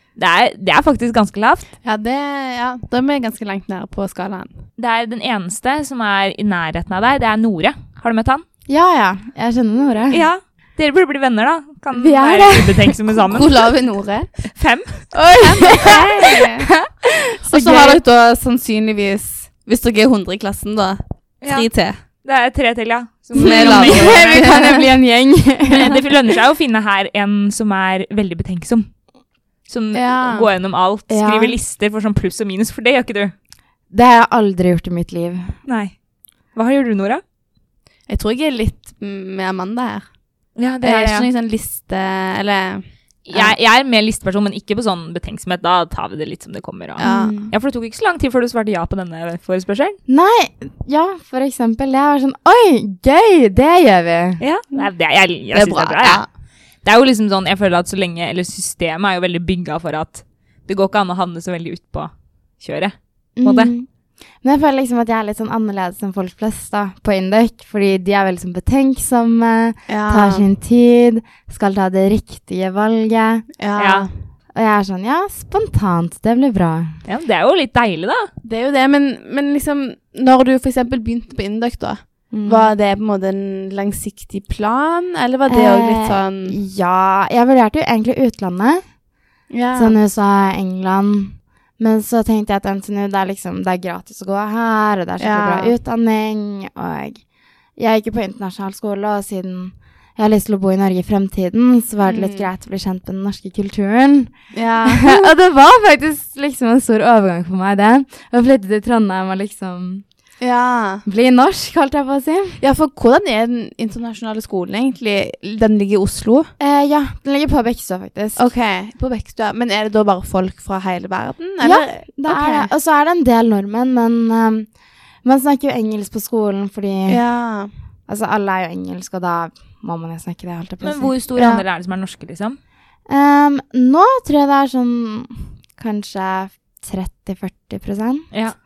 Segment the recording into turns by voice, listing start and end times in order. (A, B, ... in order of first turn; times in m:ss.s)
0:00.2-0:01.7 A
0:01.8-0:04.5 B
0:04.8-0:08.4 A
0:08.7-0:10.2 C
0:10.1-0:13.6 A
0:12.0-0:13.0 C
0:13.3-0:14.3 B
0:14.5-0:16.0 A
0:15.2-0:18.0 C
0:15.4-0:16.7 B
0:17.5-0:22.0 B
0:21.4-0:21.7 A
0:22.2-0:24.7 A
0:23.4-0:26.0 C
0:23.4-0:24.9 B
0:25.7-0:28.9 A
0:29.7-0:33.3 A
0:29.9-0:30.5 B
0:31.1-0:31.6 C
0:33.9-0:35.6 C
0:35.7-0:36.0 A
0:36.6-0:37.2 A
0:38.1-0:40.0 B
0:40.6-0:41.3 A
0:40.8-0:42.8 B
0:43.3-0:50.0 A
0:47.0-0:47.4 B
0:47.0-0:47.5 C
0:50.1-0:54.4 C
0:54.4-0:56.2 A
0:55.5-0:56.3 B
0:56.8-1:03.7 A
1:03.4-1:03.9 C
1:04.4-1:13.5 C
1:09.9-1:10.4 B
1:13.6-1:14.1 B
1:13.8-1:14.1 A
1:14.6-1:17.0 C
1:17.0-1:18.3 A
1:18.4-1:26.6 B
1:22.3-1:22.7 C
1:25.5-1:28.8 C
1:29.5-1:30.0 B
1:29.7-1:37.2 C
1:35.2-1:35.7 B
1:37.8-1:50.0 C
1:42.1-1:42.5 B
1:44.5-1:45.3 B
1:50.4-1:51.0 B
1:51.0-1:52.6 C
1:52.6-1:56.5 B
1:56.6-1:58.4 C
1:58.4-2:02.7 B
2:01.6-2:04.7 C
2:05.2-2:07.2 C
2:07.1-2:07.7 B
2:08.1-2:11.1 C
2:10.8-2:12.6 A
2:11.4-2:11.6 B
2:13.1-2:18.3 C